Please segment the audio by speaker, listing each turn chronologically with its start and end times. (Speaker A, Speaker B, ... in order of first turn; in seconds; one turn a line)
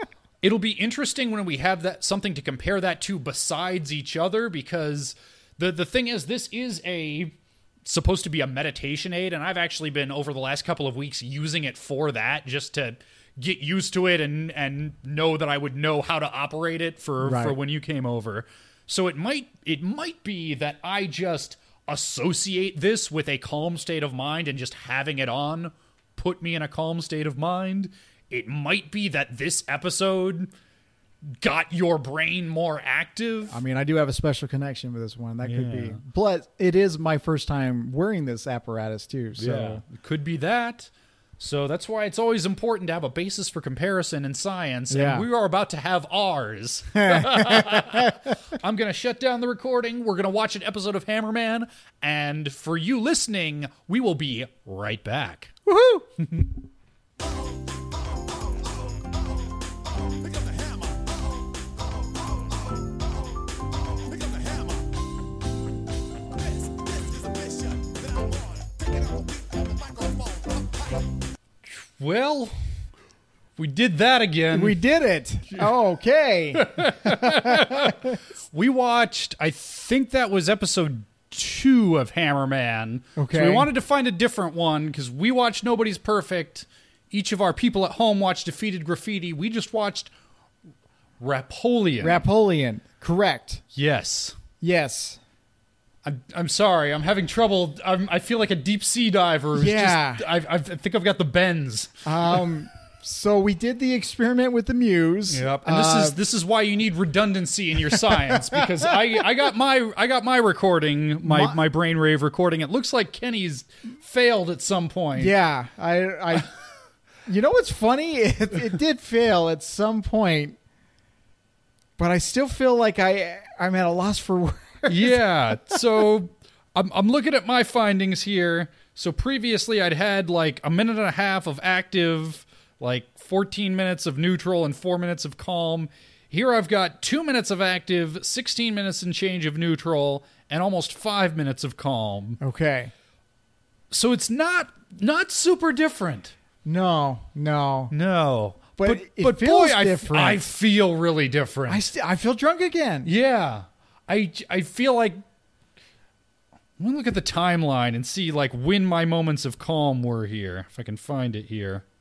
Speaker A: 0.4-30.5
Speaker B: 17.2-17.6
Speaker A: 31.2-33.6
Speaker B: 33.5-39.8
Speaker A: 35.4-36.0
Speaker A: 39.4-55.5
Speaker B: 44.9-45.3
Speaker B: 47.0-48.3
Speaker B: 55.7-56.1
Speaker A: 56.2-56.5
Speaker C: 57.2-58.2
Speaker C: 59.9-61.7
Speaker C: 62.9-65.0
Speaker C: 66.4-71.1
Speaker A: 71.6-72.6
Speaker A: 73.6-74.8
Speaker B: 74.5-78.2
Speaker A: 76.5-90.1
Speaker B: 83.2-83.7
Speaker A: 91.2-92.2
Speaker B: 92.0-93.6
Speaker A: 93.7-94.4
Speaker B: 94.6-95.2
Speaker A: 96.0-102.4
Speaker B: 99.5-100.2
Speaker B: 102.0-106.2
Speaker A: 105.3-115.3
Speaker B: 107.8-109.3
Speaker B: 111.2-111.6
Speaker B: 115.2-116.6
Speaker B: 117.3-120.6
Speaker B: 122.0-125.2
Speaker A: 124.9-142.4
Speaker B: 142.4-142.9
Speaker A: 143.9-146.3
Speaker B: 146.7-147.9
Speaker A: 147.9-151.8
Speaker B: 148.8-150.4
Speaker B: 151.7-153.1
Speaker A: 153.0-155.2
Speaker A: 156.8-161.8